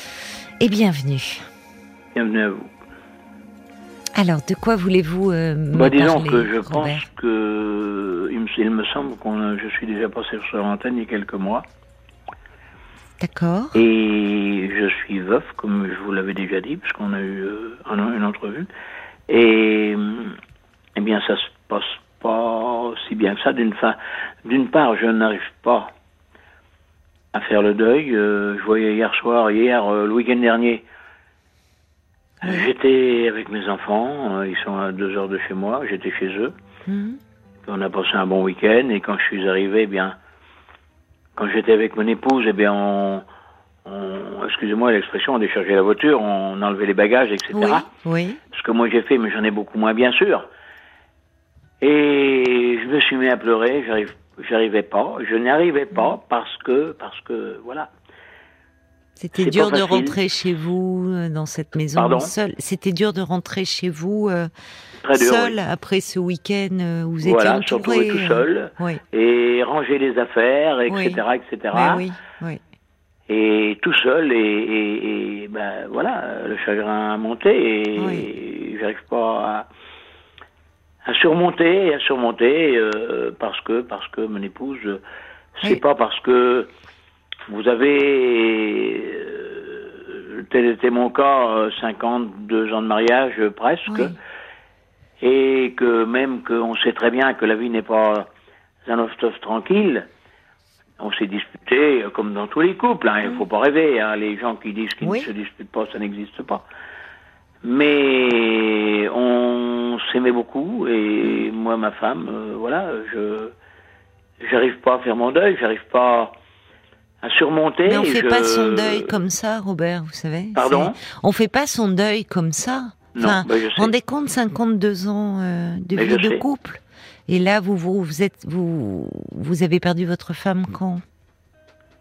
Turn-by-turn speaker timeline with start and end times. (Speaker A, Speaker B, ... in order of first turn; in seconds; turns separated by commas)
Speaker A: 0.6-1.5, Speaker B: 2.1-2.7, Speaker A: 4.1-7.1, Speaker B: 5.7-11.6, Speaker A: 13.2-13.8, Speaker B: 13.7-18.7, Speaker B: 19.3-20.4, Speaker B: 20.9-25.9, Speaker B: 27.3-30.8, Speaker B: 32.4-36.5, Speaker A: 36.9-37.2, Speaker B: 37.6-40.1, Speaker B: 41.4-43.2, Speaker B: 43.8-47.9, Speaker A: 47.5-48.4, Speaker B: 48.5-50.5, Speaker B: 51.8-57.9, Speaker A: 59.2-64.5, Speaker B: 59.3-60.2, Speaker B: 61.9-62.3, Speaker B: 65.0-65.6, Speaker A: 65.1-69.0, Speaker B: 67.2-72.0, Speaker A: 70.9-71.2, Speaker A: 71.7-72.6, Speaker B: 73.3-79.7, Speaker A: 78.0-78.2, Speaker B: 81.0-85.0, Speaker B: 85.6-86.7, Speaker B: 87.5-94.1, Speaker A: 93.9-94.1, Speaker B: 95.2-98.3, Speaker B: 98.8-100.1, Speaker B: 101.0-106.6, Speaker A: 105.0-105.3, Speaker B: 107.6-113.5, Speaker B: 114.4-116.3, Speaker B: 117.2-119.2, Speaker A: 117.8-131.0, Speaker B: 120.5-121.0, Speaker B: 123.1-123.9, Speaker B: 125.9-126.4